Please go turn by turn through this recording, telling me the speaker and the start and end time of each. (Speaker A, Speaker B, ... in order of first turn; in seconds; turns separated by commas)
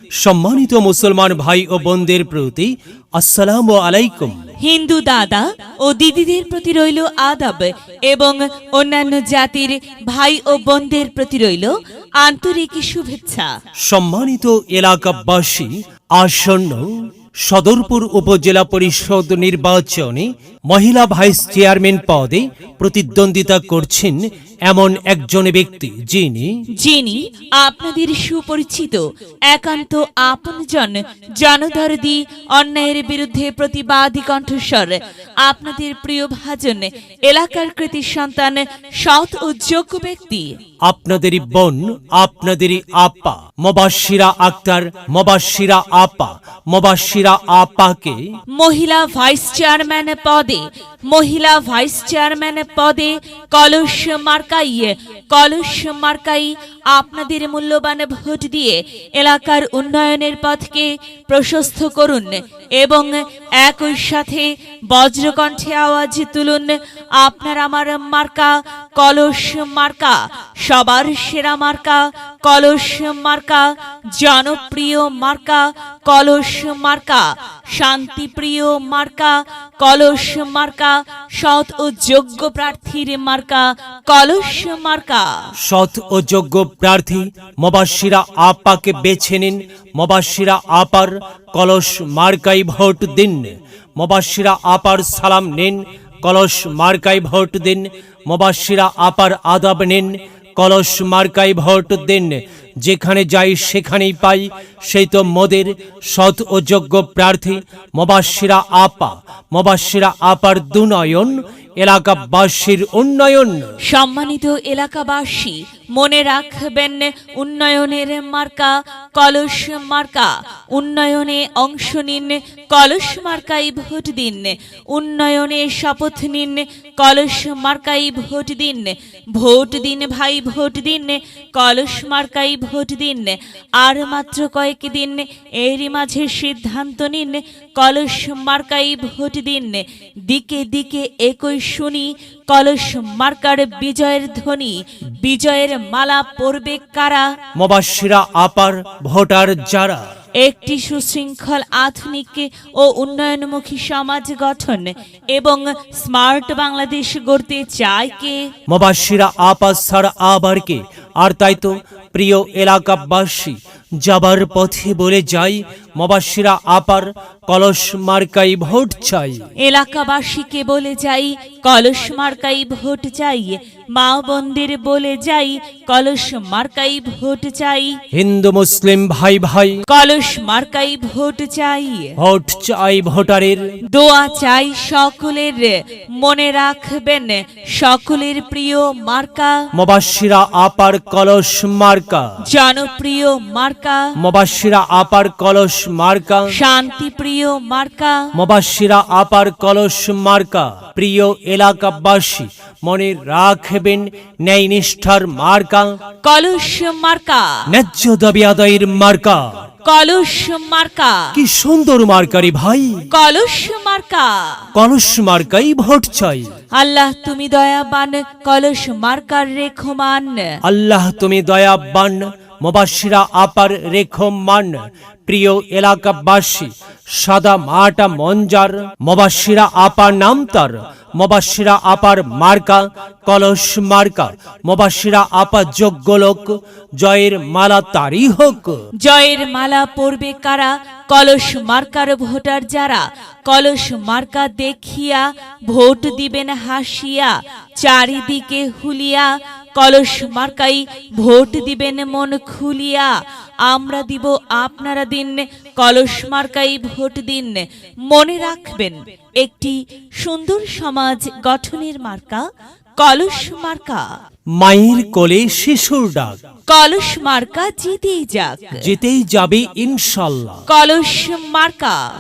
Speaker A: 0.2-4.5, Speaker B: 4.6-13.5, Speaker A: 13.9-16.9, Speaker A: 17.4-26.5, Speaker B: 26.8-40.6, Speaker A: 40.9-48.2, Speaker B: 48.6-85.3, Speaker A: 85.6-113.7, Speaker B: 113.9-147.3, Speaker A: 147.6-150.0, Speaker B: 150.4-158.5, Speaker A: 158.7-169.4, Speaker B: 169.6-178.0, Speaker A: 178.1-179.8, Speaker B: 179.9-182.2, Speaker A: 182.2-183.7, Speaker B: 183.9-189.7, Speaker A: 189.7-192.2, Speaker B: 192.5-194.1, Speaker A: 194.2-196.6, Speaker B: 196.5-198.3, Speaker A: 198.3-206.0, Speaker B: 206.2-207.6, Speaker A: 207.7-209.5, Speaker B: 209.8-211.3, Speaker A: 211.3-213.0, Speaker B: 213.1-214.7, Speaker A: 214.7-216.5, Speaker B: 216.7-220.5, Speaker A: 220.6-238.8, Speaker B: 239.0-253.1, Speaker B: 253.7-262.4, Speaker B: 263.0-264.1, Speaker A: 264.6-266.4, Speaker B: 266.7-268.9, Speaker A: 268.8-270.6, Speaker B: 270.7-272.0